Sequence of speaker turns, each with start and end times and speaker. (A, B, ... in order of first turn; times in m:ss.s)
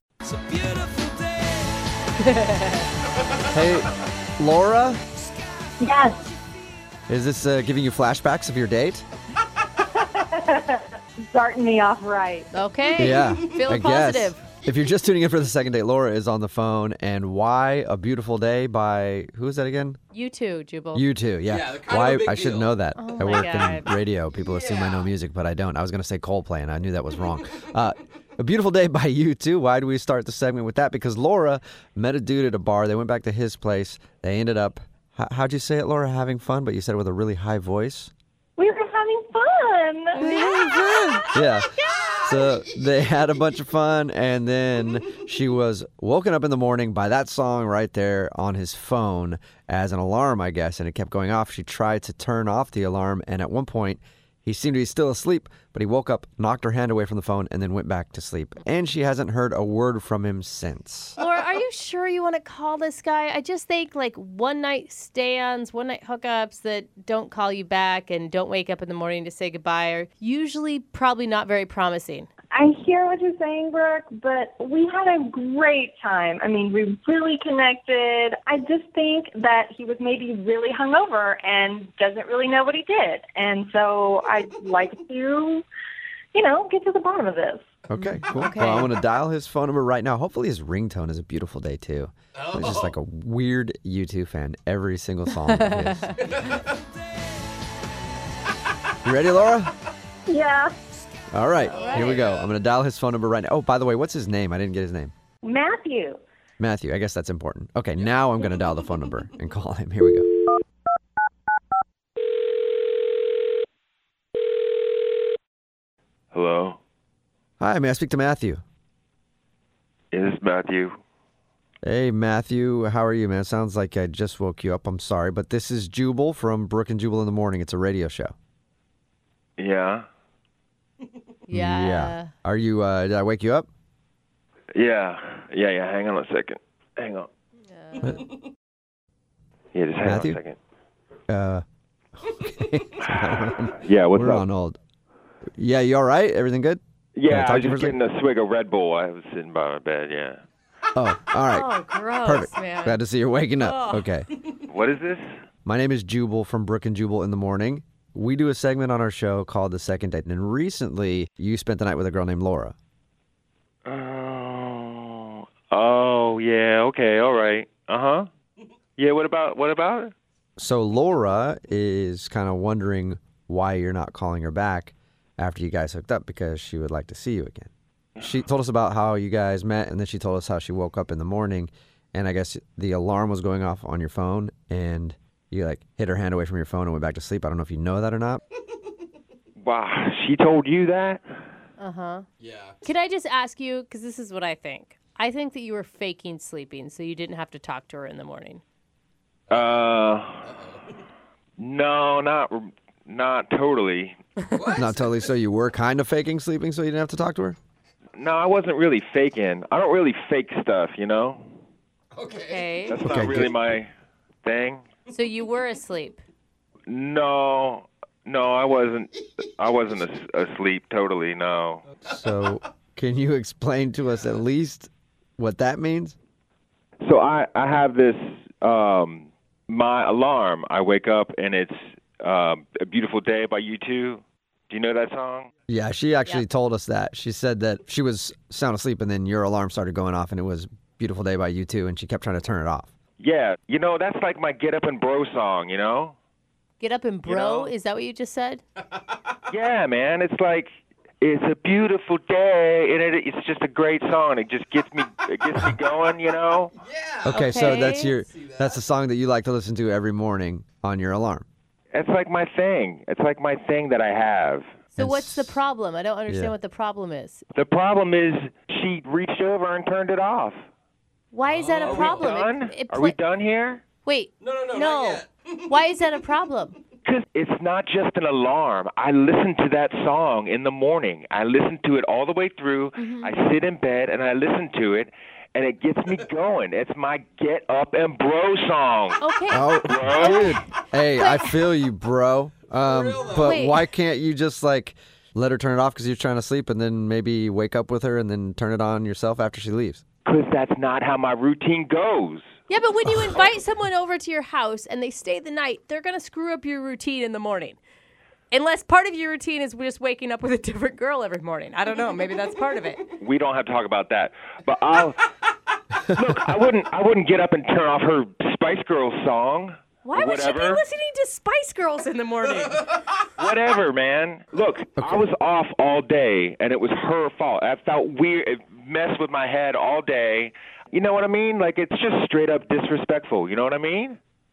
0:02.2-0:02.8 A
0:03.5-0:05.0 B
0:05.8-0:06.2 C
0:07.1-0:09.0 B
0:09.8-0:12.5 C
0:12.5-0:14.4 A
0:13.0-0:20.0 B
0:20.1-0:21.0 A
0:20.9-0:38.1 B
0:21.5-0:22.8 D
0:22.9-0:23.9 A
0:24.4-0:25.1 D
0:38.6-0:42.2 C
0:40.2-0:40.9 A
0:40.2-0:41.7 B
0:42.2-1:01.1 B
1:01.2-1:12.3 A
1:12.5-1:25.6 C
1:26.3-1:27.7 C
1:27.9-1:36.2 B
1:28.0-1:28.9 A
1:32.4-1:32.9 D
1:35.4-1:36.2 A
1:36.2-1:36.8 D
1:39.0-1:39.7 B
1:40.3-1:40.7 C
1:41.3-1:45.1 B
1:41.7-1:42.2 A
1:41.8-1:42.5 D
1:45.4-1:46.2 C
1:46.6-1:50.3 B
1:56.3-1:56.8 E
1:57.6-1:58.6 B
2:00.1-2:01.0 E
2:01.8-2:08.3 B
2:09.6-2:10.0 E
2:11.5-2:12.3 A
2:11.5-2:13.7 B
2:14.7-2:17.3 E
2:17.6-2:18.3 A
2:19.7-2:20.6 E
2:20.0-2:20.4 B
2:21.3-2:21.6 B
2:22.2-2:24.8 B
2:23.8-2:24.4 E
2:25.6-2:28.0 B
2:27.2-2:30.4 E
2:30.9-2:31.7 B
2:31.5-2:33.0 A
2:32.2-2:34.3 B
2:33.6-2:34.1 A
2:34.6-2:35.3 E
2:35.6-2:42.7 B
2:43.8-2:48.3 E
2:49.0-2:50.1 E
2:50.6-3:08.4 B
3:09.6-3:11.2 E
3:11.8-3:12.2 A
3:12.4-3:12.8 D
3:12.8-3:18.6 A
3:19.5-3:19.8 D
3:19.5-3:20.5 E
3:20.4-3:20.9 D
3:21.6-3:24.2 E
3:24.5-3:25.3 D
3:24.7-3:27.6 B
3:28.2-3:31.5 E
3:32.1-3:32.6 D
3:32.4-3:33.0 A
3:32.9-3:33.9 E
3:33.0-3:33.6 B
3:34.4-3:34.8 E
3:35.1-3:36.2 A
3:36.9-3:41.8 E
3:42.1-3:46.2 B
3:47.0-3:55.5 E
3:55.7-4:02.9 B
4:03.2-4:06.2 E
4:06.8-4:08.6 A
4:07.2-4:07.7 E
4:09.5-4:10.7 E
4:11.2-4:16.7 E
4:16.8-4:18.8 D
4:17.3-4:21.4 B
4:17.3-4:18.2 A
4:21.9-4:24.7 E
4:24.9-4:27.4 A
4:25.0-4:25.6 B
4:26.3-4:26.5 B
4:27.5-4:30.6 E
4:31.3-4:33.2 A
4:31.4-4:32.2 D
4:31.8-4:33.8 E
4:34.0-4:36.8 A
4:34.4-4:35.7 D
4:37.0-4:49.2 E
4:43.0-4:43.3 A
4:49.2-4:51.7 A
4:49.5-5:00.0 B
4:49.8-4:50.5 E
4:52.7-4:53.6 D
4:53.4-4:53.8 A
5:00.2-5:02.5 E
5:02.7-5:07.8 A
5:08.5-5:13.0 A
5:13.2-5:15.3 E
5:16.1-5:20.8 E
5:20.0-5:23.0 A
5:23.4-5:34.2 E
5:25.0-5:25.2 B